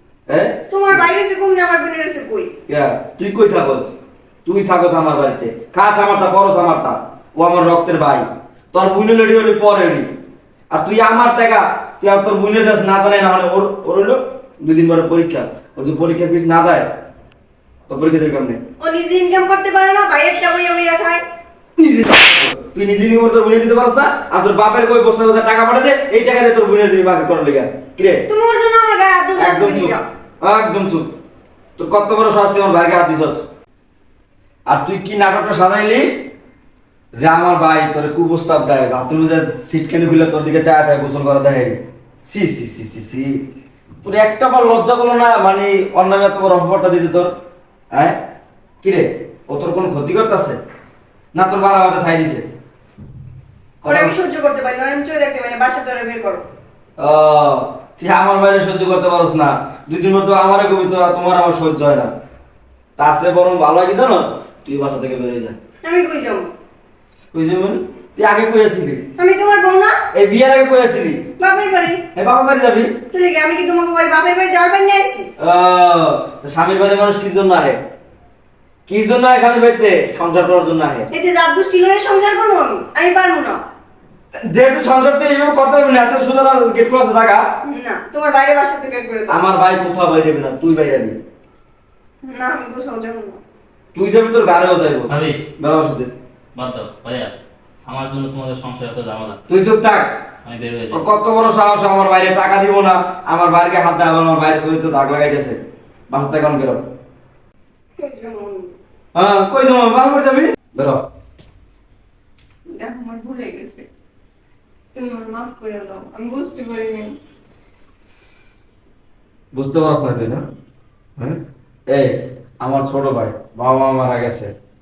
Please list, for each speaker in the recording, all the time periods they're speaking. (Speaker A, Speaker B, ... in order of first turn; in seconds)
Speaker A: 0.3-1.0, 2.7-3.9, 4.5-10.1, 10.7-16.9, 17.9-18.6, 21.8-28.2, 29.4-31.1, 31.8-33.4, 34.7-36.1, 37.2-43.4, 44.0-47.3, 47.9-48.2, 48.8-50.6, 51.3-52.4, 53.8-54.1, 57.0-62.1, 63.0-65.6, 67.3-69.1, 70.1-71.3, 72.1-73.0, 75.4-77.8, 78.9-81.1, 84.3-87.5, 89.3-91.2, 93.9-96.1, 99.5-100.2, 100.9-106.8, 109.1-111.0, 119.5-120.4, 121.2-124.5
Speaker B: 0.7-2.5, 18.8-21.2, 28.3-30.0, 53.8-56.4, 65.8-66.5, 69.2-69.9, 71.4-72.1, 73.1-75.3, 81.1-83.6, 87.6-89.4, 92.2-93.4, 108.0-108.7, 112.7-113.8, 114.9-117.1
Speaker C: 95.1-95.4, 96.5-97.3, 97.8-99.4, 100.4-101.0